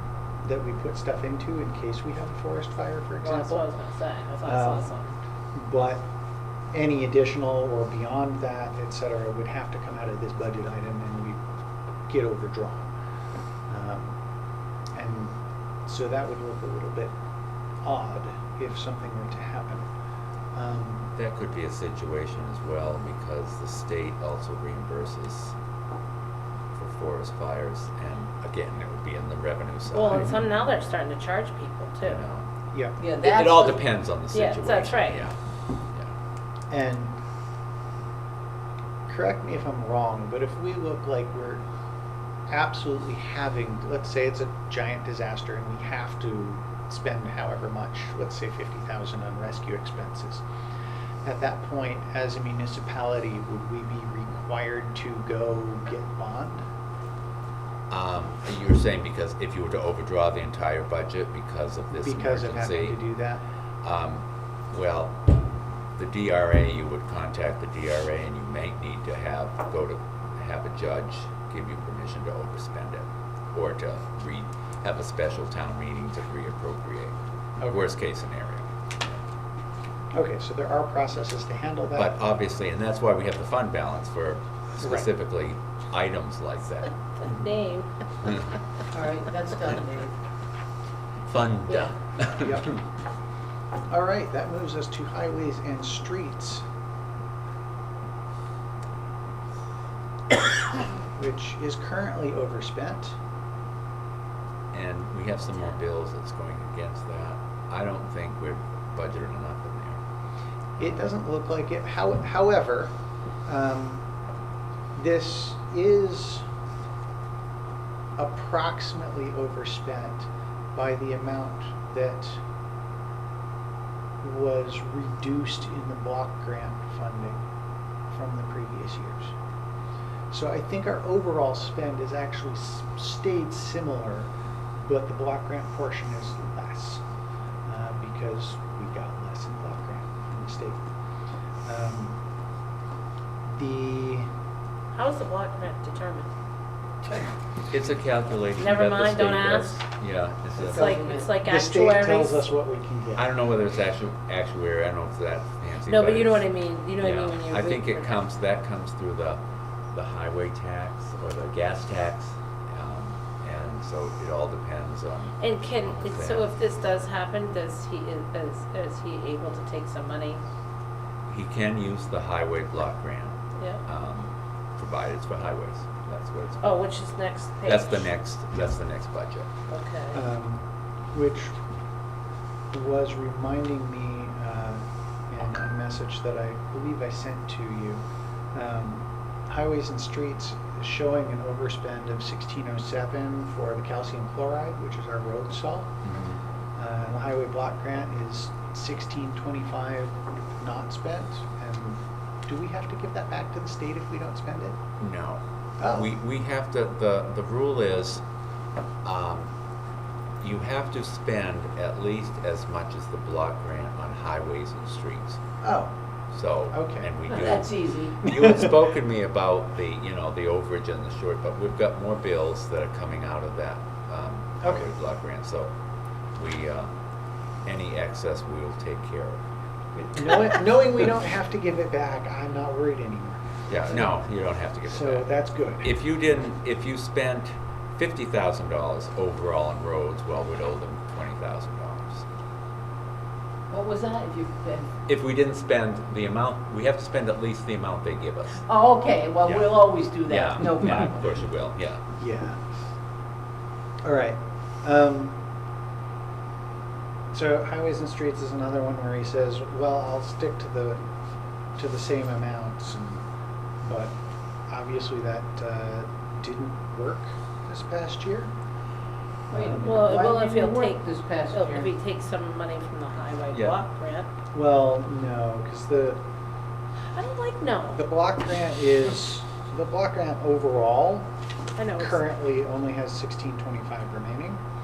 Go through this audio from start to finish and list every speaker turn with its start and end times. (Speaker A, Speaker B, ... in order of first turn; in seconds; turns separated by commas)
Speaker A: 0.4-3.6, Speaker B: 3.2-5.2, Speaker A: 4.4-4.9, Speaker A: 5.5-6.0, Speaker A: 6.7-11.4, Speaker A: 12.1-12.9, Speaker A: 13.7-14.2, Speaker A: 14.9-17.1, Speaker A: 17.8-19.9, Speaker A: 20.5-21.1, Speaker C: 21.1-25.5, Speaker C: 26.7-30.3, Speaker B: 29.9-32.2, Speaker C: 32.0-32.5, Speaker A: 32.7-33.0, Speaker D: 33.0-33.9, Speaker C: 33.2-35.4, Speaker B: 34.3-35.3, Speaker A: 36.7-37.2, Speaker A: 39.1-41.6, Speaker A: 42.5-50.4, Speaker A: 51.2-56.6, Speaker C: 57.9-63.0, Speaker A: 61.9-63.4, Speaker C: 63.8-65.2, Speaker C: 66.0-77.2, Speaker A: 77.6-77.9, Speaker C: 77.7-78.7, Speaker A: 80.1-82.1, Speaker C: 81.9-86.9, Speaker A: 84.8-85.1, Speaker B: 87.2-87.9, Speaker A: 87.2-87.5, Speaker D: 88.9-90.1, Speaker C: 91.3-92.8, Speaker A: 92.4-92.8, Speaker A: 93.9-96.6, Speaker A: 101.1-103.2, Speaker C: 104.7-110.0, Speaker A: 110.8-112.9, Speaker C: 110.8-111.1, Speaker A: 113.5-114.0, Speaker A: 114.9-116.5, Speaker A: 118.2-122.4, Speaker A: 124.2-127.4, Speaker A: 128.1-129.3, Speaker A: 130.3-137.0, Speaker A: 137.6-140.8, Speaker A: 141.6-142.2, Speaker A: 143.4-144.3, Speaker B: 144.9-146.3, Speaker C: 147.7-150.9, Speaker B: 148.6-149.8, Speaker D: 150.6-151.3, Speaker B: 150.6-152.5, Speaker A: 151.4-153.3, Speaker C: 153.2-159.4, Speaker B: 155.8-158.2, Speaker C: 159.9-166.4, Speaker B: 165.4-170.4, Speaker C: 171.3-176.8, Speaker B: 176.6-178.1, Speaker C: 177.6-179.5, Speaker B: 179.7-180.2, Speaker A: 180.1-181.6, Speaker A: 182.7-195.9, Speaker C: 196.0-196.4, Speaker A: 196.8-204.8, Speaker C: 205.0-208.2, Speaker A: 205.8-206.1, Speaker C: 209.0-209.5, Speaker C: 210.4-215.4, Speaker A: 215.6-215.9, Speaker C: 216.3-225.7, Speaker A: 216.7-217.1, Speaker D: 217.3-218.3, Speaker A: 224.6-224.9, Speaker C: 226.3-226.9, Speaker C: 227.6-229.4, Speaker A: 229.9-234.1, Speaker C: 233.7-235.3, Speaker A: 234.8-235.9, Speaker C: 235.8-242.2, Speaker D: 243.7-244.9, Speaker C: 245.1-248.7, Speaker D: 248.7-251.2, Speaker C: 249.4-252.0, Speaker A: 252.2-252.6, Speaker A: 254.0-255.4, Speaker A: 257.3-261.0, Speaker A: 261.8-263.2, Speaker A: 263.8-264.2, Speaker A: 264.7-268.5, Speaker A: 269.5-269.9, Speaker D: 269.5-271.9, Speaker B: 269.8-274.3, Speaker C: 273.5-273.8, Speaker A: 274.5-276.2, Speaker B: 277.1-278.0, Speaker A: 277.9-281.3, Speaker B: 281.8-282.3, Speaker A: 282.0-284.6